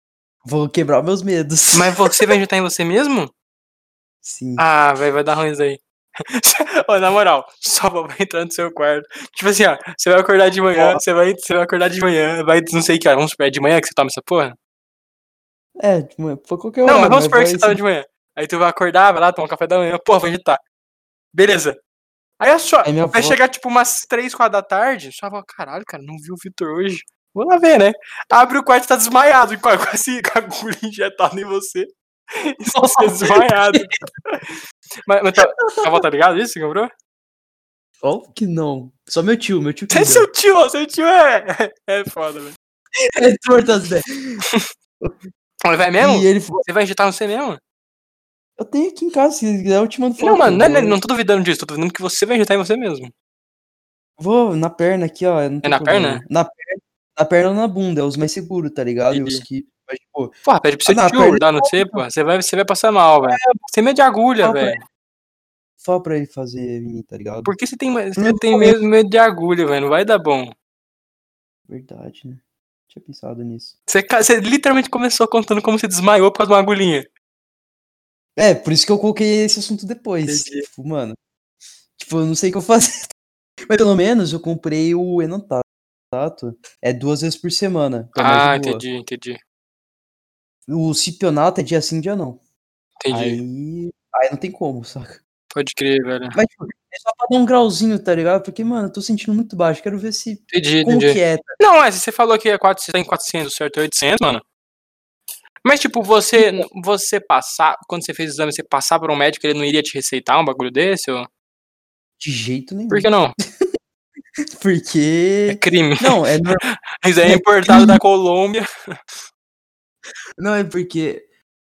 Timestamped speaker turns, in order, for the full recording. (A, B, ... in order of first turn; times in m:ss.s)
0:00.4-0:02.3 A
0:01.7-0:03.3 B
0:04.2-0:04.6 A
0:04.6-0:14.6 B
0:10.7-0:11.0 A
0:15.8-0:17.8 A
0:16.8-0:20.6 B
0:21.3-0:21.8 B
0:22.4-0:34.5 B
0:22.8-0:23.4 A
0:32.7-0:33.8 A
0:35.0-0:36.9 B
0:35.6-0:36.0 A
0:38.0-0:40.3 A
0:39.9-0:42.6 B
0:43.1-0:44.4 A
0:45.6-0:47.6 B
0:46.0-0:46.6 A
0:48.6-0:51.0 A
0:50.2-0:53.1 B
0:54.2-1:02.0 A
0:55.6-0:56.2 B
0:59.1-0:59.4 B
1:00.4-1:04.8 B
1:03.2-1:03.6 A
1:04.4-1:04.8 A
1:05.8-1:07.5 A
1:07.4-1:10.5 B
1:08.2-1:08.8 A
1:11.7-1:13.7 A
1:13.9-1:17.1 B
1:18.4-1:21.2 A
1:20.2-1:20.7 B
1:22.0-1:23.1 A
1:23.7-1:28.8 A
1:28.2-1:29.4 B
1:30.7-1:32.4 A
1:33.0-1:33.4 B
1:33.1-1:35.2 A
1:35.5-1:36.4 B
1:36.3-1:41.6 A
1:40.5-1:44.4 B
1:45.6-1:51.3 B
1:46.4-1:46.6 A
1:52.2-1:53.6 A
1:52.9-1:53.4 B
1:54.5-1:56.6 A
1:55.5-1:56.2 B
1:57.0-1:58.6 B
1:57.2-1:58.0 A
2:00.4-2:01.3 A